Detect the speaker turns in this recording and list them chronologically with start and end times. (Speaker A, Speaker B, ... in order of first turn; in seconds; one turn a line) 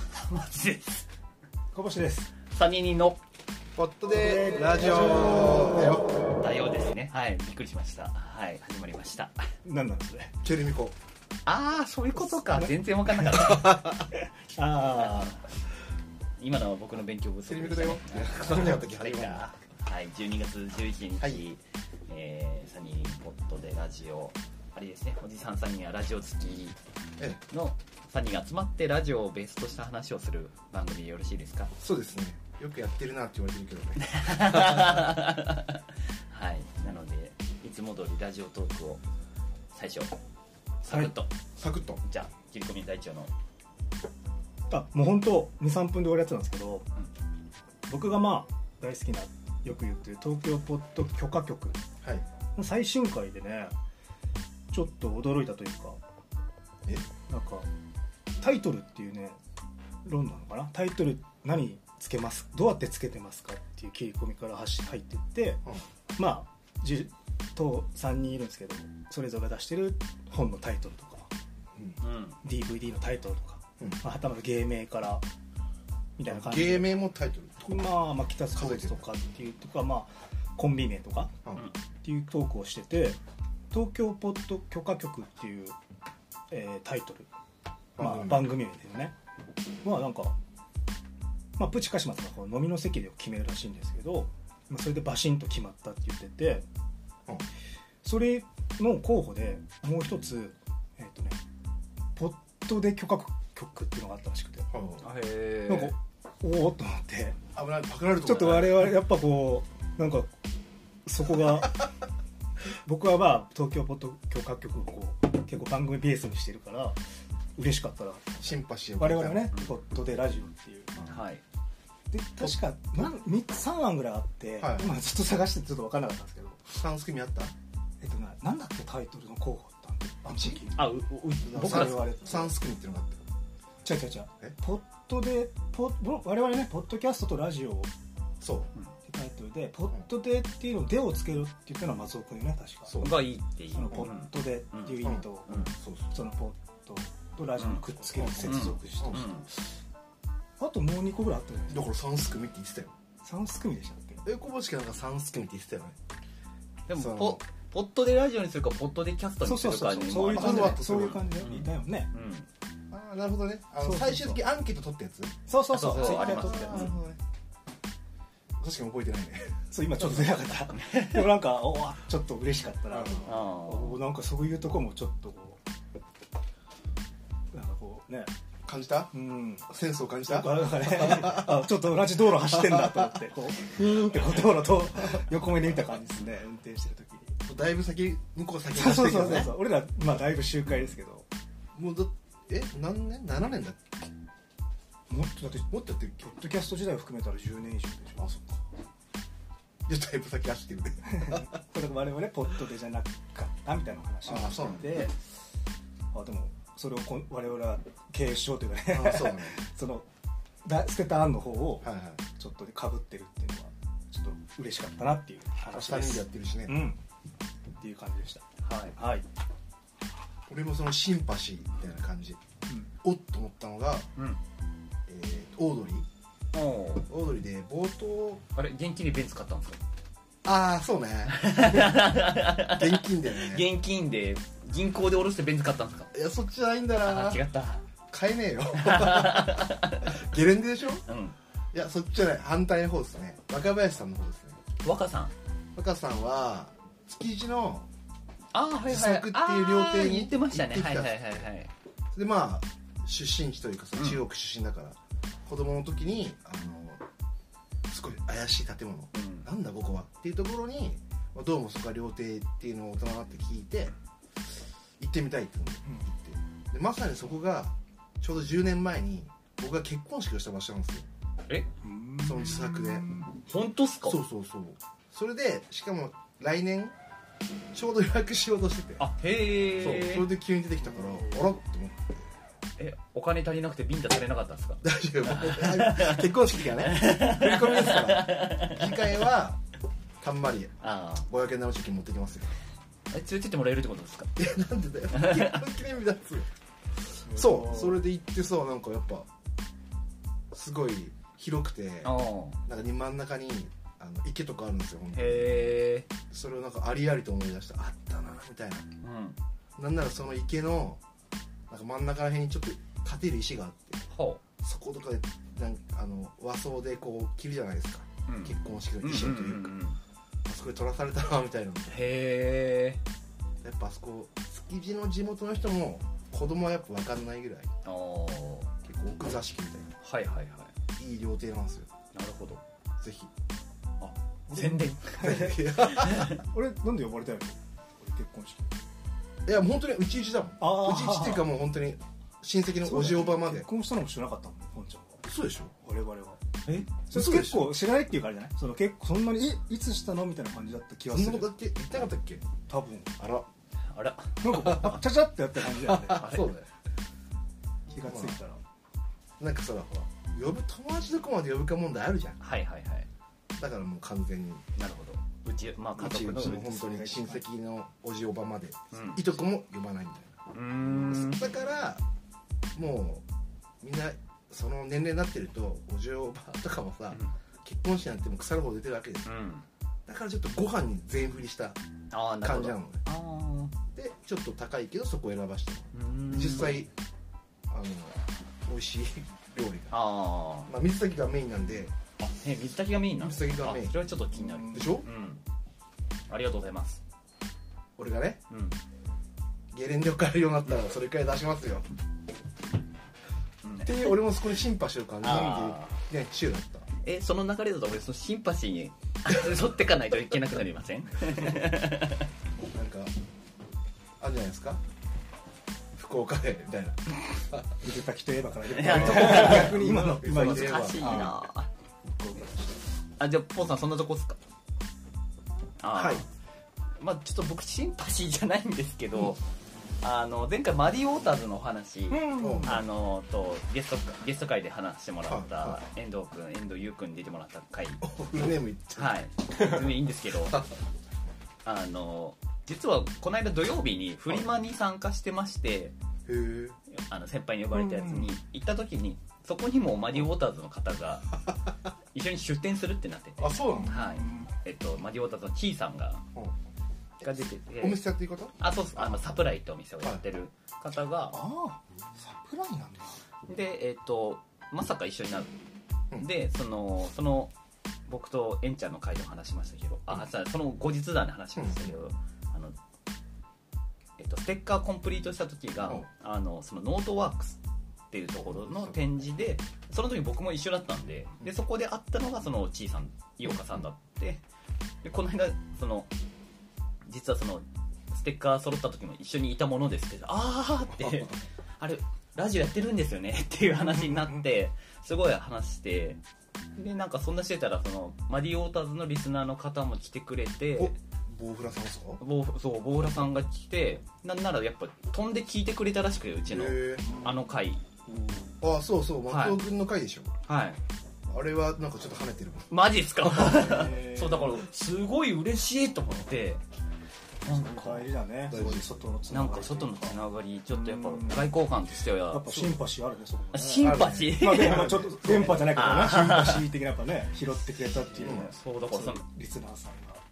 Speaker A: 0.1-1.1
Speaker B: 1.7-2.3
Speaker A: 2.5-3.2
Speaker C: 3.8-6.1
Speaker B: 4.2-5.7
Speaker A: 4.9-9.5
Speaker B: 9.7-10.4
Speaker C: 10.4-10.9
Speaker A: 11.5-13.8
Speaker B: 12.3-12.7
Speaker C: 13.5-13.9
Speaker B: 14.5-15.4
Speaker A: 14.8-15.4
Speaker A: 16.4-26.8
Speaker C: 17.5-19.5
Speaker A: 27.5-31.7
Speaker C: 31.8-34.8
Speaker A: 34.0-39.0
Speaker A: 39.7-40.2
Speaker A: 40.8-41.3
Speaker B: 40.9-41.1
Speaker C: 41.6-42.0
Speaker A: 42.0-43.3
Speaker B: 44.7-46.9
Speaker B: 47.9-51.9
Speaker B: 52.6-53.7
Speaker B: 54.7-56.0
Speaker B: 57.3-57.7
Speaker B: 58.4-59.4
Speaker B: 60.0-65.6
Speaker B: 66.2-71.3
Speaker A: 72.0-72.4
Speaker B: 72.4-75.2
Speaker B: 76.2-77.0
Speaker C: 76.3-77.8
Speaker B: 77.7-81.4
Speaker C: 78.5-79.1
Speaker B: 82.0-83.2
Speaker B: 83.7-85.8
Speaker B: 86.5-87.3
Speaker C: 88.0-88.5
Speaker B: 88.0-89.1
Speaker B: 89.8-90.4
Speaker B: 91.6-96.7
Speaker B: 98.0-101.4
Speaker B: 102.2-104.7
Speaker C: 104.7-105.1
Speaker A: 105.0-105.9
Speaker B: 105.7-107.4
Speaker C: 107.5-109.0
Speaker B: 108.2-110.3
Speaker B: 111.1-111.9
Speaker B: 112.7-117.0
Speaker B: 117.5-118.3
Speaker C: 118.4-119.5
Speaker B: 119.0-120.9
Speaker A: 121.1-121.4
Speaker B: 122.1-126.6
Speaker C: 122.4-123.1
Speaker C: 124.6-124.9
Speaker C: 126.7-127.5
Speaker B: 128.0-132.5
Speaker C: 130.3-130.6
Speaker A: 130.8-132.1
Speaker C: 131.4-133.3
Speaker B: 133.8-137.9
Speaker C: 138.4-138.7
Speaker B: 139.1-143.1
Speaker C: 142.9-143.2
Speaker A: 143.0-145.7
Speaker B: 143.7-149.3
Speaker C: 145.0-146.1
Speaker C: 148.2-149.3
Speaker A: 148.4-149.5
Speaker B: 150.6-151.9
Speaker C: 151.7-152.9
Speaker B: 153.2-154.2
Speaker C: 154.2-156.0
Speaker A: 156.9-162.5
Speaker C: 156.9-157.4
Speaker B: 159.4-162.1
Speaker C: 160.3-161.2
Speaker C: 162.9-165.4
Speaker B: 163.8-164.4
Speaker B: 165.5-167.0
Speaker A: 165.7-167.0
Speaker C: 165.9-167.2
Speaker C: 168.6-170.3
Speaker B: 169.7-175.6
Speaker A: 170.8-171.2
Speaker C: 172.9-173.2
Speaker A: 173.3-174.0
Speaker B: 177.5-178.3
Speaker C: 178.7-179.1
Speaker B: 179.1-179.7
Speaker C: 179.7-181.7
Speaker B: 180.3-187.4
Speaker C: 187.4-189.5
Speaker B: 188.7-191.3
Speaker C: 191.8-194.1
Speaker B: 195.1-198.3
Speaker C: 195.7-196.3
Speaker C: 198.2-198.6
Speaker C: 199.9-201.4
Speaker B: 201.1-205.3
Speaker C: 204.2-205.0
Speaker B: 206.1-210.1
Speaker C: 208.9-209.6
Speaker B: 210.7-217.0
Speaker C: 211.8-212.2
Speaker C: 215.7-216.8
Speaker B: 217.8-219.3
Speaker A: 218.6-219.0
Speaker C: 220.5-222.4
Speaker C: 223.0-224.1
Speaker C: 225.1-226.1
Speaker A: 226.5-227.1
Speaker C: 227.0-228.4
Speaker A: 228.6-229.8
Speaker C: 230.4-231.5
Speaker A: 231.3-236.1
Speaker C: 232.7-233.7
Speaker C: 236.1-237.4
Speaker A: 237.0-237.8
Speaker C: 238.1-241.0
Speaker A: 238.8-240.2
Speaker A: 241.1-241.4
Speaker C: 241.7-244.6
Speaker A: 244.8-245.3
Speaker C: 245.8-247.9
Speaker A: 248.5-251.7
Speaker C: 248.8-251.5
Speaker C: 252.1-257.1
Speaker A: 254.0-254.2
Speaker C: 257.9-263.9
Speaker A: 259.1-259.5
Speaker C: 265.0-271.1
Speaker B: 271.8-273.3
Speaker C: 272.2-273.2
Speaker A: 273.3-274.2
Speaker C: 274.0-276.9
Speaker C: 277.7-279.1
Speaker A: 279.0-280.3
Speaker C: 279.8-282.1
Speaker A: 282.8-286.2
Speaker C: 284.8-289.6
Speaker A: 286.9-288.9
Speaker C: 290.2-292.6
Speaker A: 290.8-291.3
Speaker A: 293.1-294.3
Speaker C: 294.4-296.5
Speaker A: 295.1-295.6
Speaker C: 297.3-299.3
Speaker A: 297.3-297.9
Speaker C: 300.5-302.1
Speaker A: 302.0-302.6
Speaker C: 302.7-305.7
Speaker A: 305.1-306.1
Speaker C: 306.3-308.9
Speaker A: 309.0-309.4
Speaker C: 309.8-311.0
Speaker C: 311.7-314.0
Speaker A: 314.1-314.4
Speaker C: 314.6-319.8
Speaker A: 318.3-320.0
Speaker C: 320.5-322.1
Speaker A: 321.9-323.0
Speaker C: 323.6-327.7
Speaker A: 327.9-328.7
Speaker C: 328.8-329.9
Speaker A: 330.0-330.7
Speaker C: 331.0-331.9
Speaker A: 332.1-332.6
Speaker C: 333.0-333.3
Speaker A: 334.0-336.4
Speaker C: 334.5-336.3
Speaker B: 336.4-338.8
Speaker C: 339.4-343.7
Speaker B: 340.6-341.5
Speaker B: 342.8-345.2
Speaker C: 345.2-345.7
Speaker B: 345.8-346.4
Speaker C: 346.7-347.7
Speaker B: 346.9-351.5
Speaker C: 351.1-352.5
Speaker B: 352.7-353.1
Speaker C: 353.2-353.5
Speaker A: 353.9-354.9
Speaker B: 354.4-356.3
Speaker C: 354.6-355.0
Speaker C: 355.7-356.7
Speaker A: 356.2-356.6
Speaker B: 357.9-358.6
Speaker C: 358.0-358.4
Speaker C: 359.4-362.4
Speaker A: 362.4-363.1
Speaker C: 363.6-364.7
Speaker A: 364.8-366.7
Speaker C: 366.0-370.4
Speaker B: 366.4-367.4
Speaker A: 368.9-369.3
Speaker A: 370.5-371.4
Speaker C: 370.9-372.0
Speaker C: 372.8-373.2
Speaker C: 373.8-379.3
Speaker A: 379.2-379.7
Speaker C: 380.1-381.8
Speaker A: 382.1-383.7
Speaker C: 382.4-383.0
Speaker C: 383.9-386.9
Speaker A: 385.9-386.8
Speaker C: 387.7-390.0
Speaker A: 389.9-390.7
Speaker C: 390.7-391.9
Speaker A: 392.2-395.4
Speaker C: 393.2-393.9
Speaker B: 394.4-394.9
Speaker C: 394.7-395.1
Speaker A: 396.3-397.0
Speaker C: 398.0-398.4
Speaker A: 398.5-398.8
Speaker C: 399.7-401.9
Speaker A: 403.6-404.2
Speaker C: 403.8-406.9
Speaker A: 405.2-406.0
Speaker A: 407.0-412.3
Speaker C: 412.6-413.1
Speaker C: 414.2-414.8
Speaker C: 415.9-417.7
Speaker B: 417.8-421.3
Speaker A: 418.7-421.7
Speaker C: 418.8-421.4
Speaker A: 423.2-424.4
Speaker A: 425.8-426.3
Speaker C: 425.9-426.2
Speaker A: 426.9-429.4
Speaker A: 430.0-438.0
Speaker B: 432.1-432.8
Speaker C: 432.4-432.8
Speaker C: 435.3-435.8
Speaker C: 438.0-439.2
Speaker A: 438.9-440.7
Speaker A: 441.6-445.9
Speaker C: 446.3-446.8
Speaker A: 446.9-451.4
Speaker B: 447.8-448.3
Speaker A: 452.1-456.2
Speaker C: 453.4-454.1
Speaker B: 453.8-454.5
Speaker A: 457.2-458.0
Speaker C: 457.2-459.3
Speaker A: 458.6-461.4
Speaker B: 461.3-463.2
Speaker A: 463.5-465.5
Speaker A: 466.1-467.5
Speaker A: 468.1-472.8
Speaker C: 471.6-471.9
Speaker A: 474.2-477.6
Speaker A: 478.1-484.4
Speaker C: 478.6-478.9
Speaker A: 485.0-486.1
Speaker A: 487.1-496.2
Speaker A: 496.8-500.9
Speaker C: 500.8-502.2
Speaker A: 502.2-508.0
Speaker C: 506.5-507.1
Speaker B: 507.0-507.4
Speaker C: 508.6-510.3
Speaker A: 509.3-509.6
Speaker A: 510.5-510.8
Speaker C: 511.3-512.7
Speaker A: 512.7-516.6
Speaker B: 513.4-514.5
Speaker B: 517.4-521.5
Speaker A: 517.4-518.1
Speaker C: 518.5-518.9
Speaker A: 519.3-522.8
Speaker B: 522.3-530.2
Speaker A: 523.5-526.7
Speaker C: 523.8-525.5
Speaker A: 528.1-529.2
Speaker C: 528.2-528.5